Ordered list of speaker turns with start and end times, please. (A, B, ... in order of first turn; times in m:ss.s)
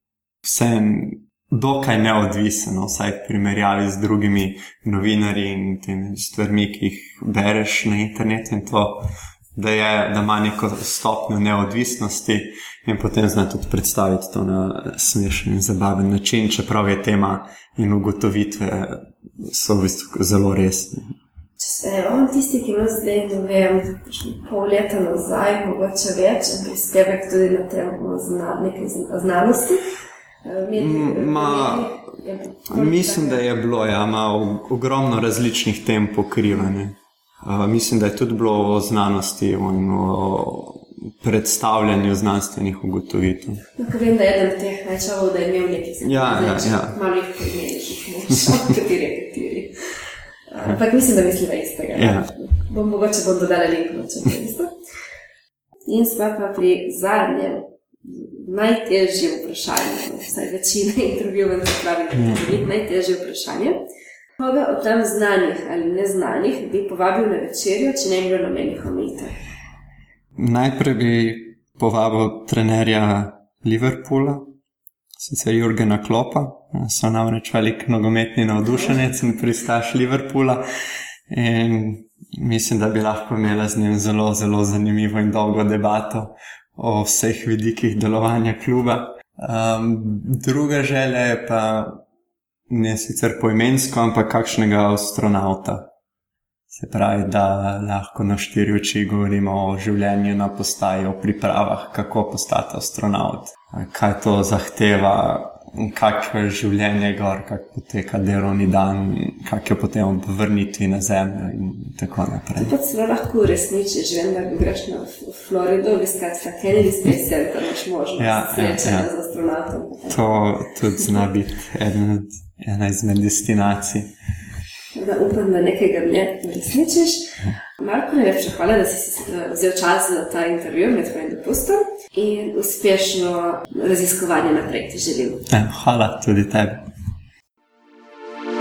0:00.4-0:21.1 A
0:21.6-0:29.9 B
0:30.4-0:33.4 B
0:30.8-0:32.0 A
0:32.7-0:43.6 A
0:43.8-0:49.7 B
0:46.0-0:47.0 A
0:50.5-0:54.7 B
0:51.9-0:52.3 A
0:55.9-1:03.8 B
1:04.4-1:09.4 B
1:10.4-1:14.5 A
1:15.2-1:20.6 A
1:21.3-1:32.0 A
1:32.7-1:35.9 A
1:36.7-1:52.7 A
1:52.6-2:00.3 B
1:58.2-1:59.1 A
2:00.1-2:04.1 A
2:04.9-2:15.4 B
2:15.5-2:16.8 A